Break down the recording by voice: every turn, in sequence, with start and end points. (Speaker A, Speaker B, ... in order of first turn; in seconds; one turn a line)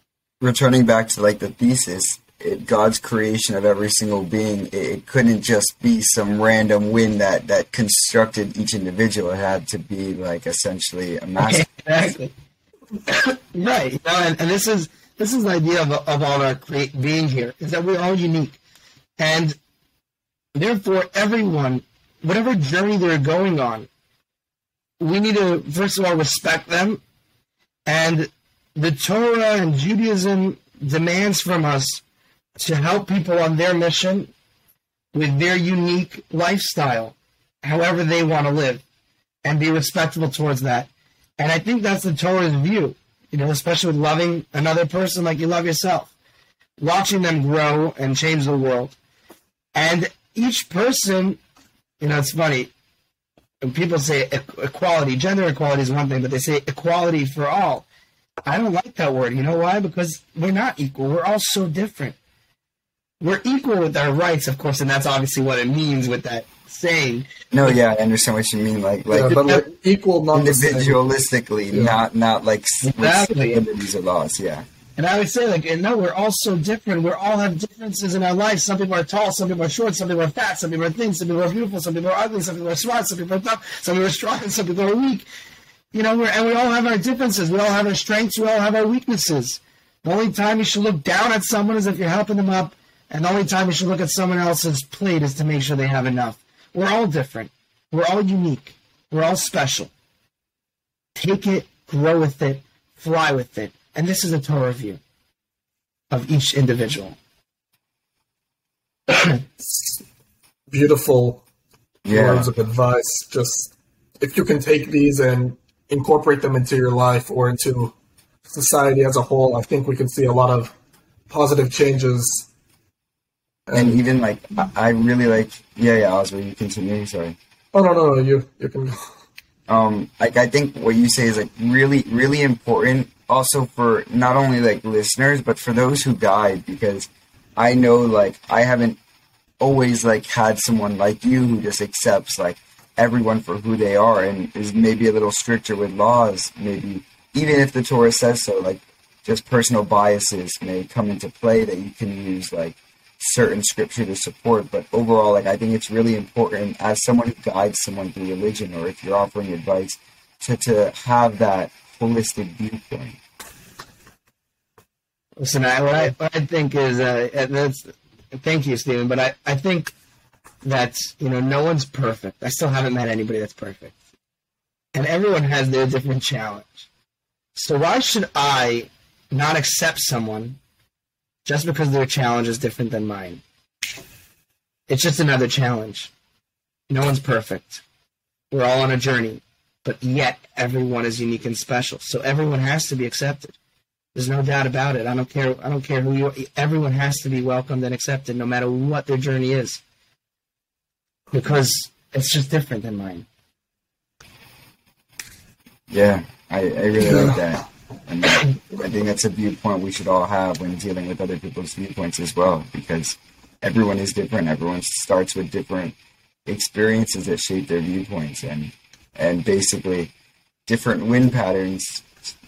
Speaker A: 0.4-11.7
Speaker B: 11.4-12.3
Speaker B: 13.1-18.6
Speaker B: 19.2-19.6
Speaker B: 20.5-23.9
Speaker B: 25.0-27.0
Speaker B: 27.9-32.0
Speaker B: 32.6-34.3
Speaker B: 35.1-38.8
Speaker B: 39.4-46.1
Speaker B: 46.8-48.9
Speaker B: 49.7-51.4
Speaker B: 52.0-52.7
Speaker B: 53.6-57.9
Speaker B: 58.5-62.1
Speaker B: 63.2-67.3
Speaker A: 67.5-69.6
Speaker C: 69.1-71.1
Speaker A: 70.3-74.7
Speaker C: 71.7-72.0
Speaker B: 72.8-73.7
Speaker B: 75.0-85.2
Speaker B: 85.9-99.9
Speaker B: 101.1-105.0
Speaker B: 106.1-107.2
Speaker B: 109.1-109.4
Speaker C: 109.6-110.0
Speaker C: 110.7-111.4
Speaker A: 112.0-112.5
Speaker C: 112.1-117.9
Speaker C: 118.5-120.7
Speaker C: 121.3-122.5
Speaker C: 123.7-124.0
Speaker A: 123.7-127.3
Speaker C: 127.7-129.0
Speaker A: 129.7-139.0
Speaker A: 139.6-163.2
Speaker B: 165.4-169.9
Speaker B: 170.6-173.9
Speaker B: 174.9-176.8
Speaker B: 177.5-180.6
Speaker B: 181.4-183.4
Speaker B: 184.9-186.1
Speaker B: 186.9-187.8
Speaker B: 188.5-193.6
Speaker B: 194.1-199.8
Speaker B: 201.3-203.2
Speaker A: 205.9-215.9
Speaker A: 216.5-220.1
Speaker A: 220.7-222.1